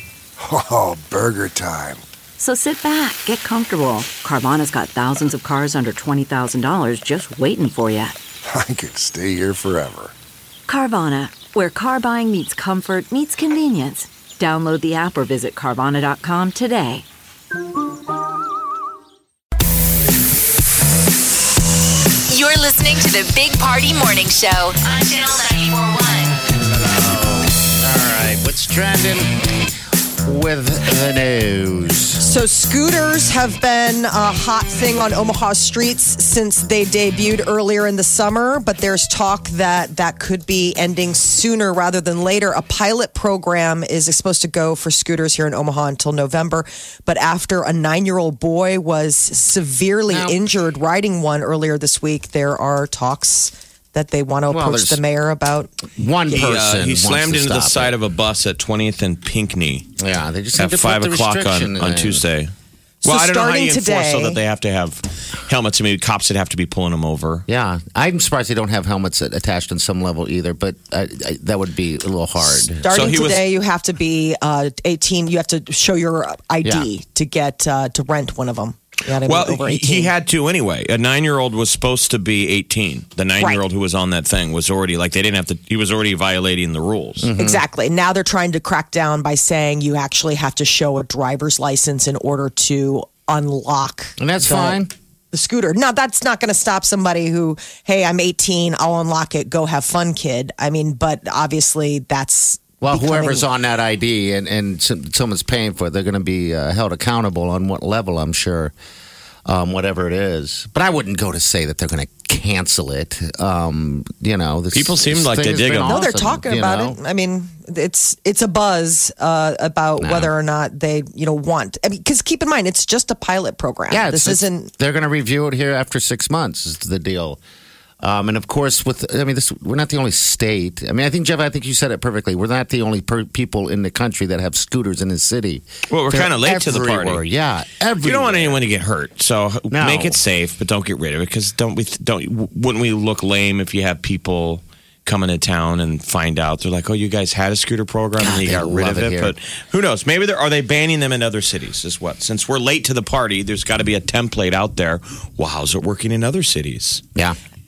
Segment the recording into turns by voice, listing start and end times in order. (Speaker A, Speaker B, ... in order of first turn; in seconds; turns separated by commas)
Speaker A: 0.4-2.0, Speaker B: 2.4-8.2, Speaker A: 8.5-10.1, Speaker B: 10.7-17.1, Speaker C: 22.3-26.4, Speaker D: 26.7-29.4, Speaker D: 30.2-32.2, Speaker E: 32.2-55.7, Speaker D: 50.1-50.4, Speaker D: 54.5-55.0, Speaker D: 56.0-57.9, Speaker F: 56.3-59.9, Speaker D: 60.0-62.2, Speaker F: 60.6-62.5, Speaker E: 63.0-64.4, Speaker F: 63.0-67.5, Speaker D: 67.5-73.2, Speaker E: 72.5-80.1, Speaker F: 72.9-73.5, Speaker F: 79.2-87.3, Speaker D: 87.2-87.6, Speaker E: 87.4-94.8, Speaker D: 94.2-94.9, Speaker E: 95.3-103.5, Speaker D: 102.8-108.7, Speaker D: 109.5-117.0, Speaker F: 114.7-116.0, Speaker E: 115.9-124.7, Speaker D: 120.0-120.3, Speaker D: 123.9-127.4, Speaker D: 128.0-138.6, Speaker F: 135.9-137.2, Speaker F: 138.0-157.0, Speaker D: 139.7-140.2, Speaker D: 148.2-149.3